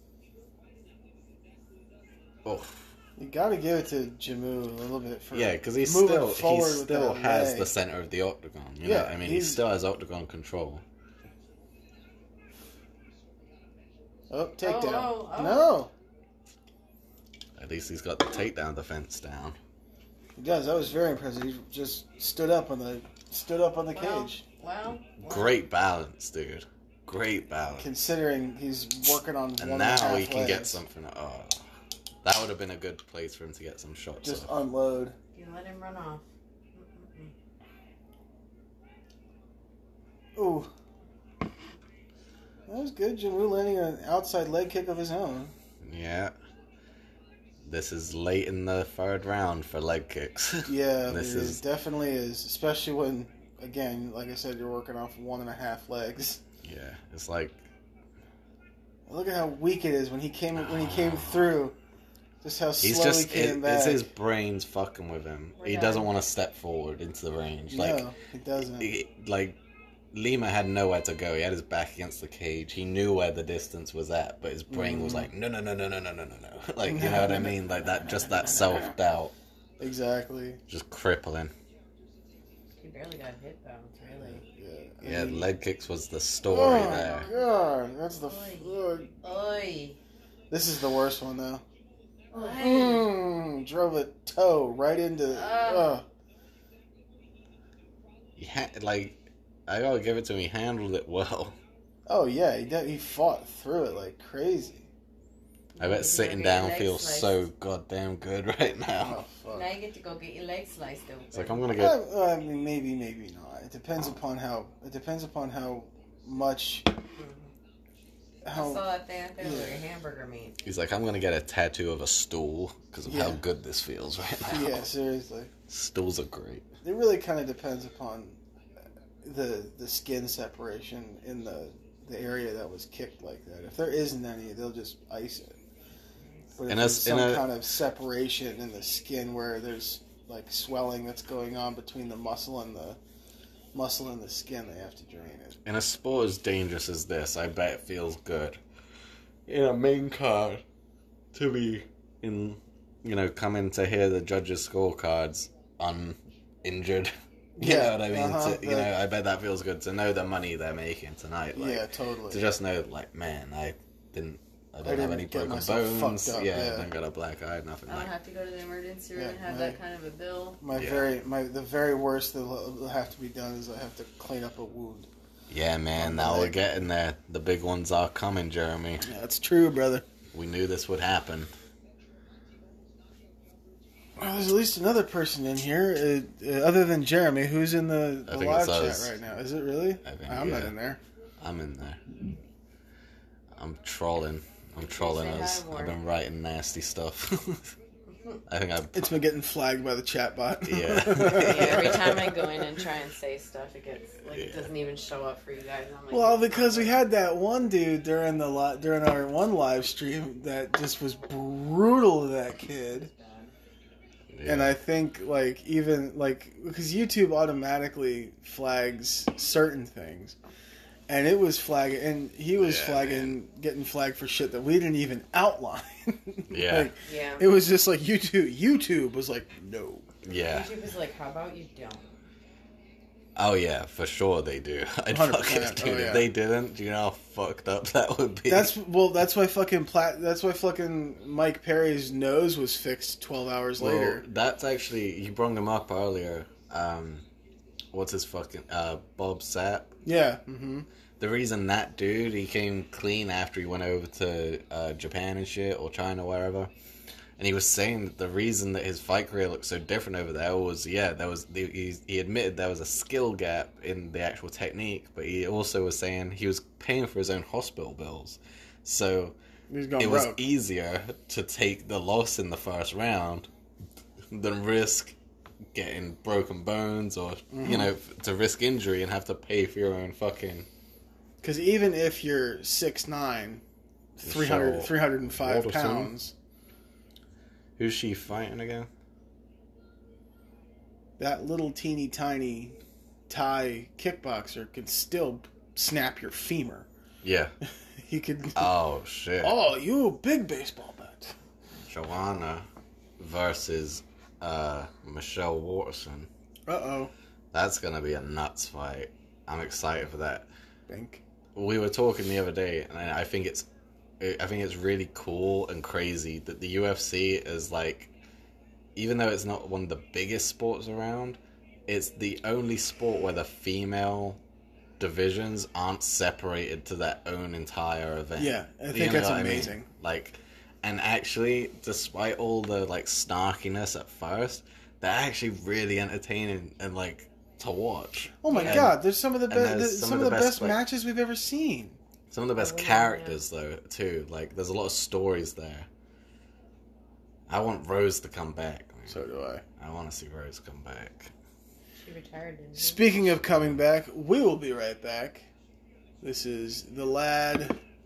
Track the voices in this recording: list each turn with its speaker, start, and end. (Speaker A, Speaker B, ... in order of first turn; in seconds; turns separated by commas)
Speaker A: 2.4-2.9, Speaker B: 3.2-7.7, Speaker A: 5.3-10.8, Speaker B: 8.8-9.6, Speaker B: 14.3-15.9, Speaker C: 14.6-15.7, Speaker A: 17.6-19.6, Speaker B: 20.4-24.4, Speaker C: 23.9-25.6, Speaker A: 25.2-27.9, Speaker B: 27.8-30.8, Speaker A: 29.6-31.6, Speaker A: 32.2-34.5, Speaker B: 34.2-35.1, Speaker C: 35.3-37.3, Speaker B: 40.4-40.7, Speaker B: 42.7-45.5, Speaker A: 45.8-46.3, Speaker A: 47.6-51.6, Speaker B: 50.6-56.4, Speaker A: 56.6-57.6, Speaker B: 59.0-61.7, Speaker A: 60.6-61.5, Speaker B: 62.4-64.1, Speaker A: 62.8-68.0, Speaker C: 65.6-66.1, Speaker B: 67.7-68.9, Speaker A: 68.8-69.6, Speaker A: 70.1-79.3, Speaker B: 74.7-75.3, Speaker B: 76.8-77.5, Speaker B: 79.8-80.6, Speaker A: 80.7-81.5, Speaker C: 82.8-84.4, Speaker B: 84.1-85.5, Speaker A: 85.0-87.2, Speaker B: 86.5-89.1, Speaker C: 86.8-87.5, Speaker C: 88.2-90.0, Speaker B: 90.5-91.6, Speaker C: 92.3-93.1, Speaker B: 92.5-96.0, Speaker C: 95.3-96.0, Speaker A: 98.4-101.6, Speaker B: 102.1-104.9, Speaker C: 105.8-107.4, Speaker A: 105.8-109.2, Speaker B: 109.0-109.7, Speaker C: 109.5-111.6, Speaker A: 111.3-112.0, Speaker B: 111.7-116.9, Speaker C: 117.2-117.5, Speaker B: 118.4-118.8, Speaker C: 118.5-120.5, Speaker B: 119.4-119.8, Speaker A: 120.6-124.8, Speaker B: 123.0-123.4, Speaker B: 124.5-125.5, Speaker A: 125.7-126.7, Speaker B: 126.8-128.4, Speaker B: 129.2-135.6, Speaker B: 136.6-143.0, Speaker A: 136.7-137.4, Speaker B: 143.7-145.6, Speaker A: 145.6-148.6, Speaker A: 149.5-150.6, Speaker A: 151.3-168.1, Speaker B: 157.6-158.9, Speaker B: 161.5-162.4, Speaker B: 164.8-166.9, Speaker C: 167.9-170.6, Speaker B: 169.2-169.8, Speaker B: 170.6-175.1, Speaker A: 170.7-171.1, Speaker A: 175.5-179.1, Speaker B: 176.0-176.6, Speaker B: 179.0-180.0, Speaker A: 180.3-181.5, Speaker B: 184.2-191.0, Speaker A: 188.3-189.1, Speaker A: 190.0-190.7, Speaker A: 191.4-192.0, Speaker A: 193.6-197.7, Speaker C: 194.8-196.0, Speaker A: 198.5-199.1, Speaker B: 198.9-202.2, Speaker A: 200.6-202.4, Speaker C: 201.3-207.0, Speaker A: 204.3-204.7, Speaker B: 206.1-213.1, Speaker C: 212.9-213.5, Speaker A: 214.3-214.8, Speaker B: 214.4-220.3, Speaker B: 221.1-230.1, Speaker A: 222.5-223.4, Speaker A: 226.5-226.9, Speaker C: 227.0-227.4, Speaker A: 230.2-230.7, Speaker C: 230.5-232.1, Speaker A: 233.3-238.7, Speaker B: 235.1-236.3, Speaker B: 238.5-244.2, Speaker A: 243.8-247.2, Speaker A: 247.9-249.9, Speaker B: 250.0-250.9, Speaker A: 251.2-256.7, Speaker A: 257.4-269.4, Speaker B: 269.7-270.4, Speaker A: 270.0-273.5, Speaker A: 274.3-275.1, Speaker A: 275.7-280.7, Speaker B: 277.5-277.9, Speaker B: 281.4-283.6, Speaker B: 284.2-286.3, Speaker A: 284.2-286.1, Speaker A: 287.8-288.9, Speaker B: 291.2-296.9, Speaker A: 297.2-297.5, Speaker B: 298.0-298.7, Speaker A: 298.6-299.6, Speaker B: 299.4-301.3, Speaker A: 301.8-302.6, Speaker A: 303.2-306.3, Speaker B: 306.7-307.1, Speaker A: 307.5-310.5, Speaker B: 310.9-311.2, Speaker A: 311.6-313.7, Speaker A: 314.2-318.1, Speaker A: 318.9-324.4, Speaker A: 325.0-340.8, Speaker B: 328.4-329.9, Speaker B: 338.4-342.0, Speaker C: 338.5-338.9, Speaker A: 342.3-345.9, Speaker C: 342.6-343.4, Speaker A: 347.5-349.2, Speaker B: 349.1-349.6, Speaker A: 349.8-351.3, Speaker C: 352.0-353.2, Speaker B: 352.8-355.4, Speaker A: 353.2-353.8, Speaker B: 356.2-357.8